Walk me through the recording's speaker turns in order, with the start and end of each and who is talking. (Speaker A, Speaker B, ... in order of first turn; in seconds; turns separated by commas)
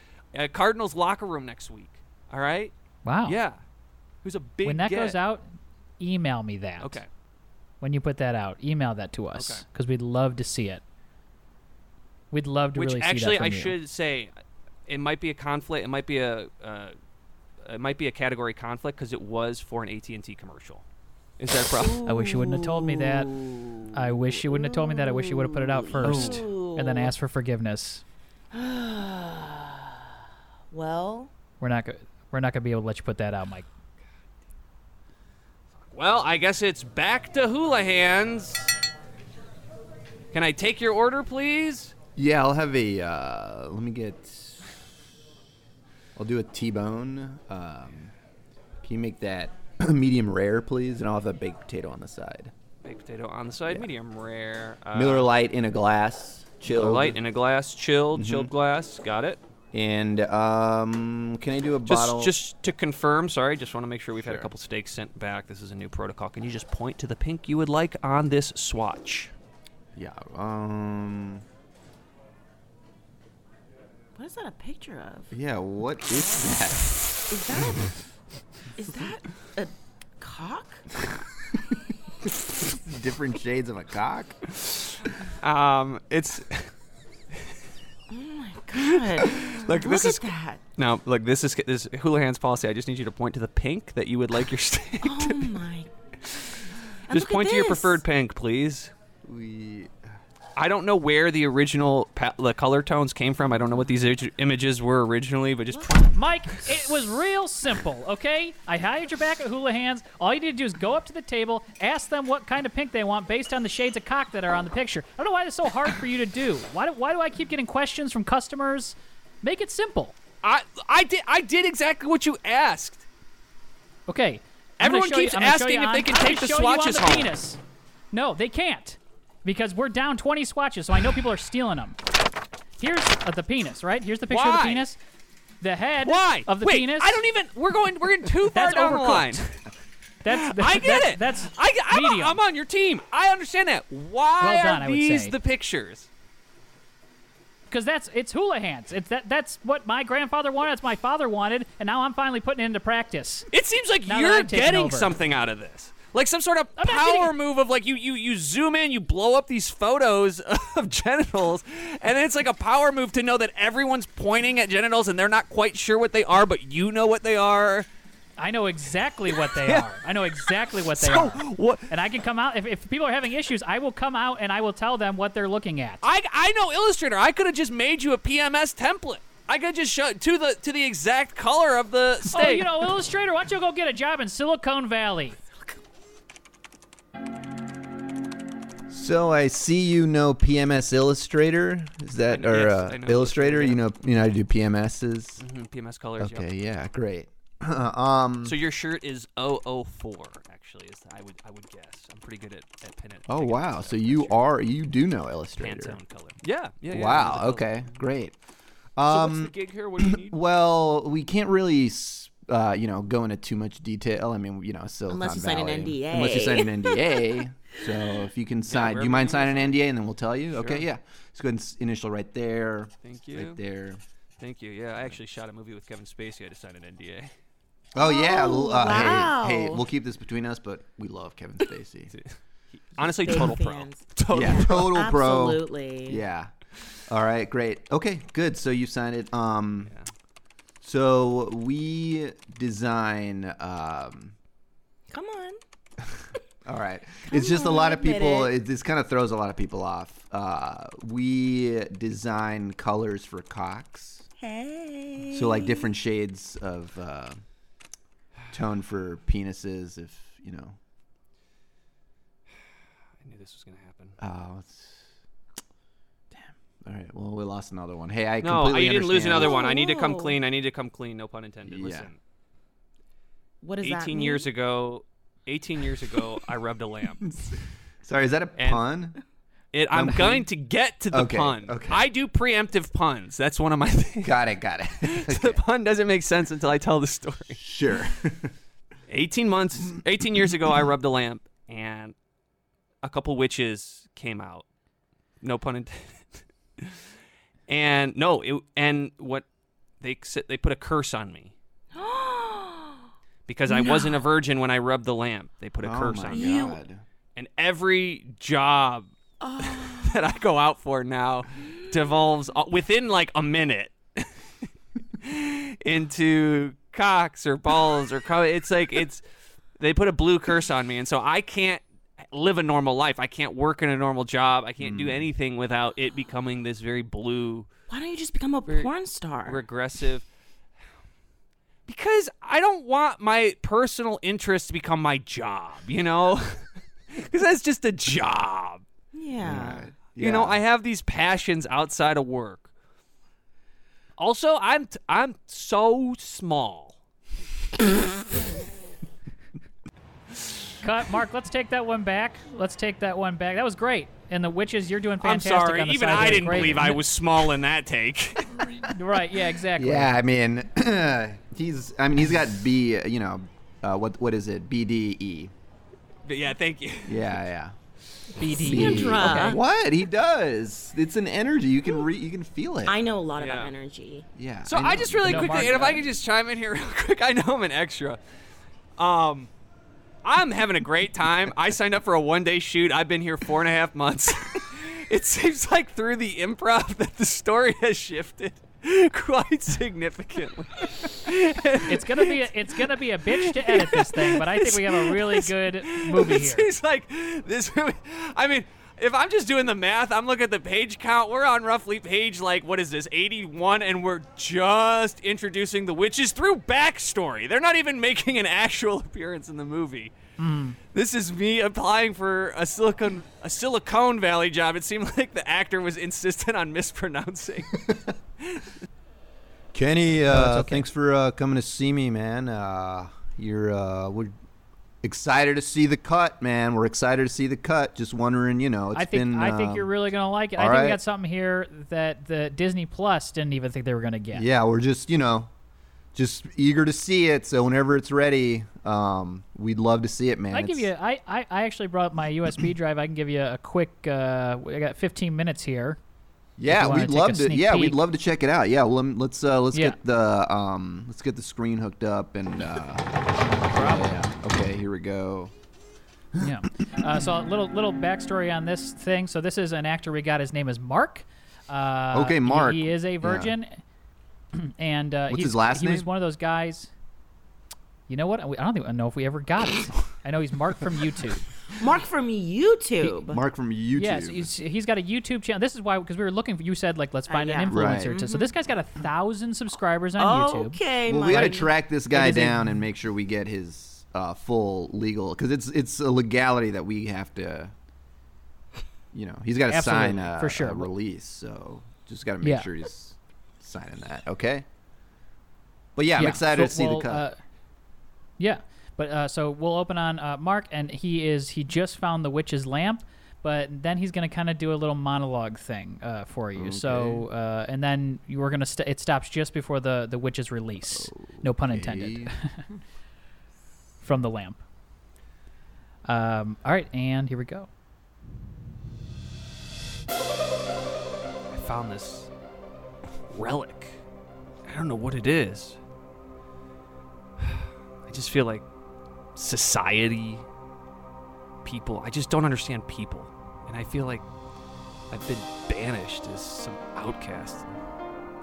Speaker A: 0.3-2.7, Speaker B: 3.0-3.4, Speaker A: 3.2-3.6, Speaker A: 4.2-5.2, Speaker B: 4.6-5.5, Speaker B: 6.0-7.0, Speaker A: 6.8-7.1, Speaker B: 7.8-10.8, Speaker A: 9.3-9.6, Speaker B: 12.3-13.8, Speaker A: 12.7-14.3, Speaker A: 14.9-16.9, Speaker A: 17.6-20.8, Speaker A: 21.4-22.0, Speaker C: 21.7-27.1, Speaker B: 22.0-23.3, Speaker B: 23.9-28.0, Speaker A: 26.0-26.4, Speaker C: 28.5-29.9, Speaker C: 30.7-31.3, Speaker B: 31.6-33.7, Speaker A: 35.9-38.7, Speaker A: 40.3-41.9, Speaker D: 42.1-44.7, Speaker D: 46.1-48.1, Speaker D: 48.8-52.5, Speaker A: 52.8-55.3, Speaker D: 54.9-57.2, Speaker A: 56.7-59.4, Speaker D: 58.1-58.5, Speaker D: 59.7-62.3, Speaker A: 61.9-69.3, Speaker D: 64.2-64.5, Speaker D: 69.9-71.4, Speaker C: 74.2-75.3, Speaker D: 75.3-77.0, Speaker C: 77.3-77.9, Speaker C: 78.8-80.9, Speaker D: 82.5-84.4, Speaker A: 85.3-86.7, Speaker C: 88.1-90.6, Speaker A: 88.8-95.6, Speaker C: 95.0-95.9, Speaker C: 97.1-98.0, Speaker A: 97.1-98.9, Speaker D: 99.2-100.0, Speaker A: 100.5-106.2, Speaker C: 105.7-106.0, Speaker B: 106.1-120.2, Speaker A: 120.4-123.0, Speaker B: 124.1-127.6, Speaker A: 124.8-127.3, Speaker B: 128.1-132.0, Speaker B: 132.8-135.0, Speaker A: 134.3-134.9, Speaker B: 135.6-137.2, Speaker A: 136.0-139.6, Speaker B: 138.5-139.4, Speaker B: 140.2-142.4, Speaker A: 140.3-146.1, Speaker B: 144.4-145.3, Speaker B: 147.7-153.5, Speaker A: 153.5-167.9, Speaker B: 154.1-155.1, Speaker B: 156.8-157.3, Speaker B: 168.4-176.0, Speaker A: 169.3-171.9, Speaker A: 176.0-182.9, Speaker B: 182.3-185.4, Speaker D: 188.9-195.4, Speaker A: 192.3-193.8, Speaker A: 195.4-196.5, Speaker D: 196.2-198.6, Speaker A: 198.4-204.4, Speaker D: 203.3-206.0, Speaker A: 205.6-207.8, Speaker D: 206.9-208.3, Speaker D: 209.0-224.0, Speaker A: 209.1-210.4, Speaker C: 215.1-217.3, Speaker A: 218.7-219.8, Speaker A: 220.5-220.8, Speaker A: 223.0-223.6, Speaker A: 224.4-227.3, Speaker D: 227.9-232.1, Speaker C: 228.0-229.8, Speaker A: 228.9-229.2, Speaker A: 232.1-235.0, Speaker C: 233.0-236.2, Speaker D: 234.3-236.5, Speaker D: 237.1-239.9, Speaker D: 240.8-244.3, Speaker C: 245.1-245.6, Speaker D: 246.1-254.2, Speaker C: 247.3-248.5, Speaker C: 254.4-255.9, Speaker D: 255.3-257.4, Speaker D: 258.5-260.8, Speaker A: 263.2-264.2, Speaker D: 264.2-265.1, Speaker D: 266.3-269.6, Speaker A: 268.4-272.2, Speaker C: 269.4-270.4, Speaker D: 271.6-272.1, Speaker C: 273.6-274.5, Speaker A: 273.8-277.2, Speaker D: 277.2-279.2, Speaker A: 278.6-278.8, Speaker A: 279.7-284.4, Speaker D: 279.9-280.4, Speaker D: 281.1-282.1, Speaker D: 284.2-285.6, Speaker A: 285.0-287.6, Speaker D: 287.6-288.5, Speaker A: 289.1-292.1, Speaker A: 293.0-294.6, Speaker A: 295.4-297.0, Speaker A: 297.7-299.4, Speaker A: 300.0-301.5, Speaker C: 301.9-303.0, Speaker A: 303.5-306.7, Speaker C: 303.7-304.2, Speaker D: 305.8-307.0, Speaker C: 306.3-306.8, Speaker A: 307.4-314.3, Speaker C: 309.4-310.3, Speaker A: 315.2-319.2, Speaker A: 319.8-327.7, Speaker D: 324.8-325.3, Speaker C: 327.9-329.6, Speaker A: 329.4-330.2, Speaker A: 331.9-338.8, Speaker C: 339.1-339.8, Speaker D: 339.4-340.6, Speaker A: 340.2-342.7, Speaker A: 344.2-346.9, Speaker B: 350.8-357.0, Speaker A: 355.2-358.6, Speaker B: 358.9-360.1, Speaker D: 359.8-365.5, Speaker A: 366.2-367.4, Speaker D: 367.1-367.7, Speaker B: 368.4-369.6, Speaker D: 368.5-373.0, Speaker C: 368.6-369.6, Speaker C: 372.9-374.3, Speaker A: 373.4-373.7, Speaker D: 374.4-375.9, Speaker A: 374.6-378.2, Speaker B: 375.2-376.0, Speaker A: 379.0-379.5, Speaker A: 380.2-410.1, Speaker B: 391.9-396.7, Speaker B: 410.4-410.8, Speaker A: 410.9-417.8, Speaker A: 418.4-418.7, Speaker D: 419.7-424.3, Speaker B: 420.3-420.9, Speaker D: 425.0-429.9, Speaker B: 428.9-434.4, Speaker D: 430.6-431.0, Speaker D: 434.3-435.5, Speaker D: 436.1-440.9, Speaker B: 440.5-446.0, Speaker D: 446.6-453.1, Speaker B: 446.7-448.0, Speaker B: 453.5-454.1, Speaker D: 453.6-455.5, Speaker B: 456.4-463.8, Speaker D: 462.1-463.5, Speaker B: 464.5-466.9, Speaker D: 465.3-466.1, Speaker B: 468.1-471.4, Speaker C: 471.7-473.4, Speaker D: 473.0-474.5, Speaker B: 473.9-480.8, Speaker C: 477.3-478.5, Speaker D: 477.7-478.2, Speaker C: 480.2-481.7, Speaker D: 481.1-487.7, Speaker B: 482.1-482.8, Speaker D: 489.1-494.6, Speaker B: 489.7-490.9, Speaker B: 492.4-492.7, Speaker D: 495.9-497.2, Speaker B: 496.2-497.4, Speaker B: 498.4-512.6, Speaker D: 506.5-507.3, Speaker D: 510.8-512.7, Speaker B: 514.0-514.6, Speaker B: 516.0-517.7, Speaker A: 521.5-522.3, Speaker A: 523.3-524.0, Speaker A: 524.6-525.8, Speaker A: 527.4-528.6, Speaker A: 529.4-530.5, Speaker A: 531.6-534.2, Speaker A: 535.1-537.8